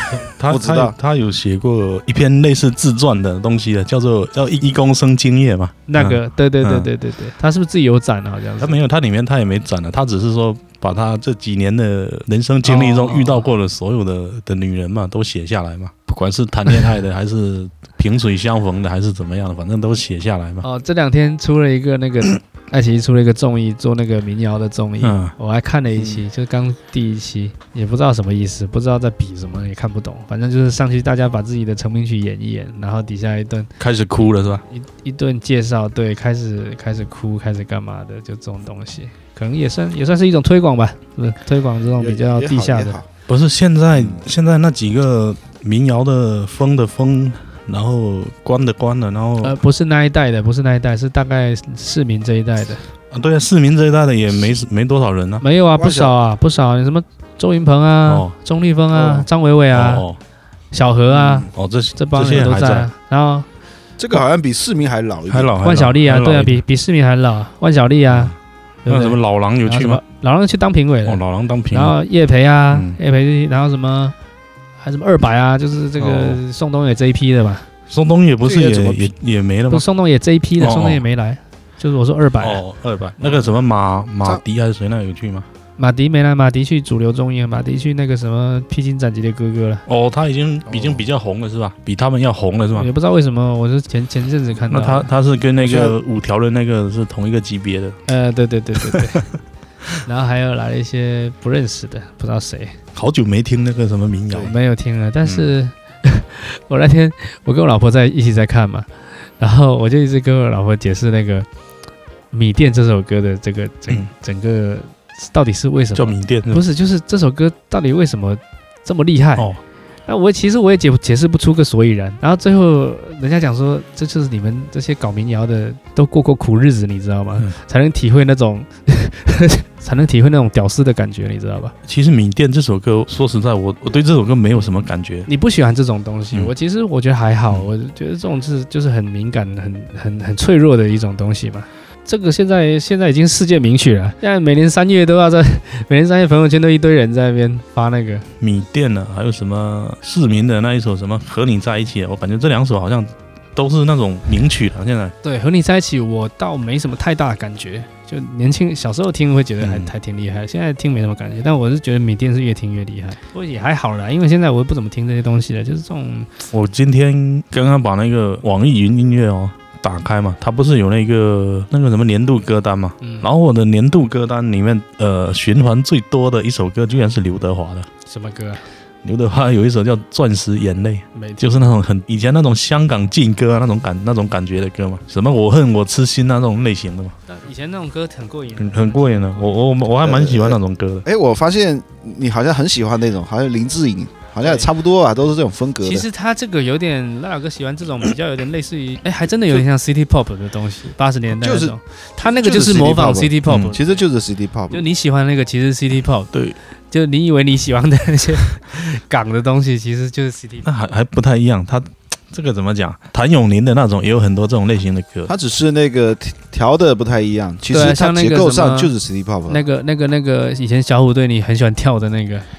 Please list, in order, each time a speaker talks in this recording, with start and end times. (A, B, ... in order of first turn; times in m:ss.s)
0:00.2-0:06.9 A
0:00.5-0:01.0 B
0:05.9-0:08.8 C
0:08.6-0:20.6 A
0:12.6-0:13.5 C
0:20.6-0:33.7 C
0:25.0-0:25.3 A
0:33.8-0:34.6 A
0:34.7-0:43.0 C
0:42.0-0:43.1 B
0:43.3-0:49.6 A
0:44.0-0:44.2 B
0:49.4-0:52.8 C
0:53.1-0:55.4 A
0:55.4-1:00.0 C
0:55.8-0:56.1 B
0:58.1-0:58.3 A
0:58.9-0:59.3 B
0:59.7-1:00.2 A
1:00.7-1:03.5 C
1:01.1-1:01.5 B
1:01.5-1:02.9 A
1:04.0-1:05.6 B
1:05.3-1:06.6 A
1:05.6-1:08.3 C
1:08.1-1:08.4 A
1:08.8-1:14.2 C
1:08.9-1:10.0 A
1:11.0-1:12.0 A
1:12.7-1:13.0 A
1:14.8-1:17.7 C
1:16.0-1:16.4 A
1:17.9-1:19.9 A
1:18.4-1:19.1 B
1:19.7-1:22.6 C
1:20.6-1:21.0 A
1:22.4-1:25.5 A
1:25.8-1:29.8 C
1:29.9-1:32.9 A
1:30.7-1:31.0 B
1:32.8-1:35.1 C
1:34.7-1:38.0 A
1:35.6-1:36.0 B
1:38.1-1:39.3 C
1:40.0-1:42.8 C
1:43.0-1:44.5 A
1:44.4-1:51.5 C
1:52.3-1:59.5 C
1:56.0-1:56.6 A
2:00.1-2:11.8 C
2:11.9-2:15.3 A
2:15.3-2:28.3 C
2:28.4-2:35.1 A
2:35.2-2:46.3 C
2:39.6-2:39.9 A
2:46.5-2:57.9 A
2:53.0-2:53.3 C
2:58.1-2:58.6 C
2:59.0-3:07.2 A
3:01.1-3:01.6 C
3:07.3-3:09.6 C
3:08.6-3:11.1 A
3:10.0-3:16.1 B
3:14.4-3:14.7 C
3:15.8-3:24.0 C
3:21.3-3:24.8 B
3:23.5-3:23.8 A
3:24.7-3:26.3 C
3:26.3-3:26.6 A
3:26.9-3:30.7 C
3:30.6-3:35.3 A
3:35.3-3:39.6 B
3:37.7-3:38.9 C
3:39.5-3:42.5 C